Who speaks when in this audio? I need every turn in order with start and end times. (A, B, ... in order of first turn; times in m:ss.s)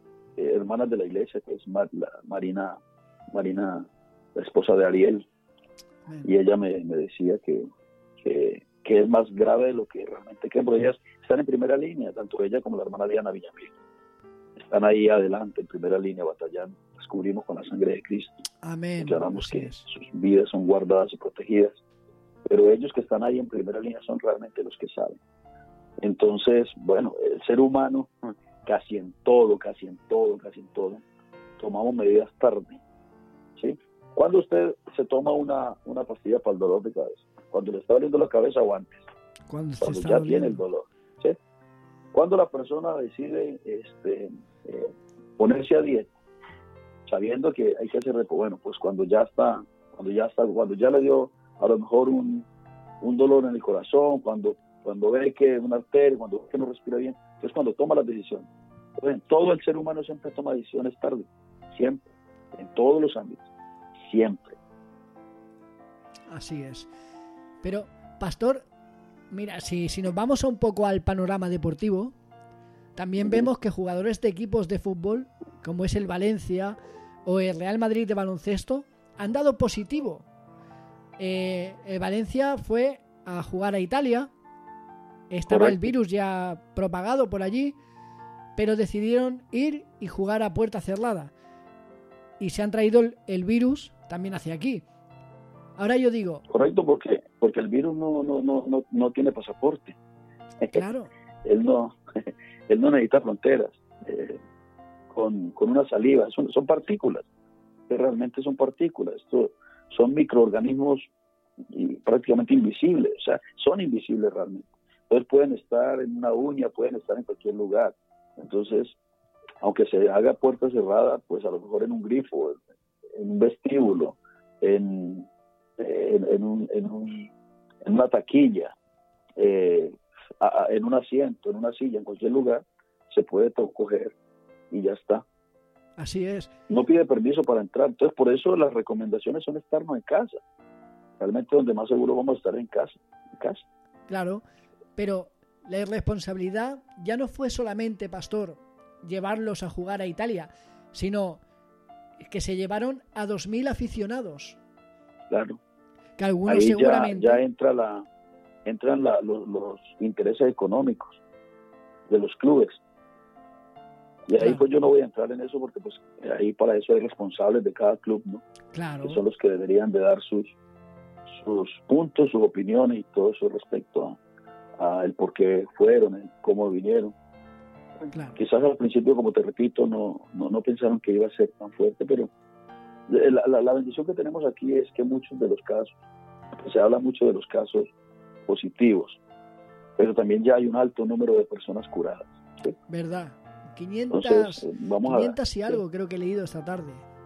0:00.4-0:02.8 A
0:03.3-0:05.3 A
0:06.2-0:07.7 A
0:08.2-0:13.8 A
0:14.6-0:18.4 A
0:18.6-0:19.9 B
0:19.0-0:21.8 A
0:22.5-0:25.2 A
0:26.0-0:28.1 A
0:28.6-0:31.0 A
0:31.6-0:32.8 A
0:33.6-0:39.0 A
0:39.5-0:40.6 B
0:39.8-0:41.4 A
0:42.1-0:46.1 A
0:47.1-0:52.5 A
0:53.0-0:58.5 A
0:59.0-1:03.5 A
1:04.0-1:04.6 A
1:06.3-1:06.9 B
1:07.6-1:08.7 B
1:09.3-1:12.2 B
1:13.0-1:20.3 B
1:13.2-1:13.5 A
1:21.2-1:24.3 B
1:25.3-1:27.8 B
1:25.5-1:25.9 A
1:28.6-1:31.3 B
1:32.4-1:34.8 B
1:35.8-1:36.4 B
1:36.5-1:40.0 A
1:40.7-1:41.1 B
1:41.4-1:42.0 A
1:42.7-1:44.4 A
1:45.1-1:47.3 A
1:47.9-1:51.1 A
1:51.7-1:59.0 A
1:59.6-2:02.6 A
2:03.2-2:07.3 A
2:07.8-2:08.8 A
2:09.4-2:14.2 A
2:14.7-2:15.2 A
2:16.0-2:16.5 B
2:16.7-2:20.4 A
2:21.2-2:23.6 A
2:24.1-2:24.4 B
2:25.0-2:31.4 B
2:32.2-2:34.6 B
2:35.3-2:35.6 A
2:36.2-2:37.4 B
2:36.5-2:38.1 A
2:38.6-2:41.2 A
2:42.1-2:42.8 A
2:44.3-2:48.4 A
2:44.4-2:44.7 B
2:48.7-2:49.2 B
2:49.0-2:50.6 A
2:51.3-2:54.2 A
2:54.8-2:57.2 A
2:58.1-2:58.4 B
2:58.4-3:02.3 A
3:03.1-3:05.9 A
3:06.6-3:07.9 A
3:08.5-3:09.2 A
3:10.0-3:12.8 A
3:12.9-3:17.0 B
3:14.1-3:15.8 A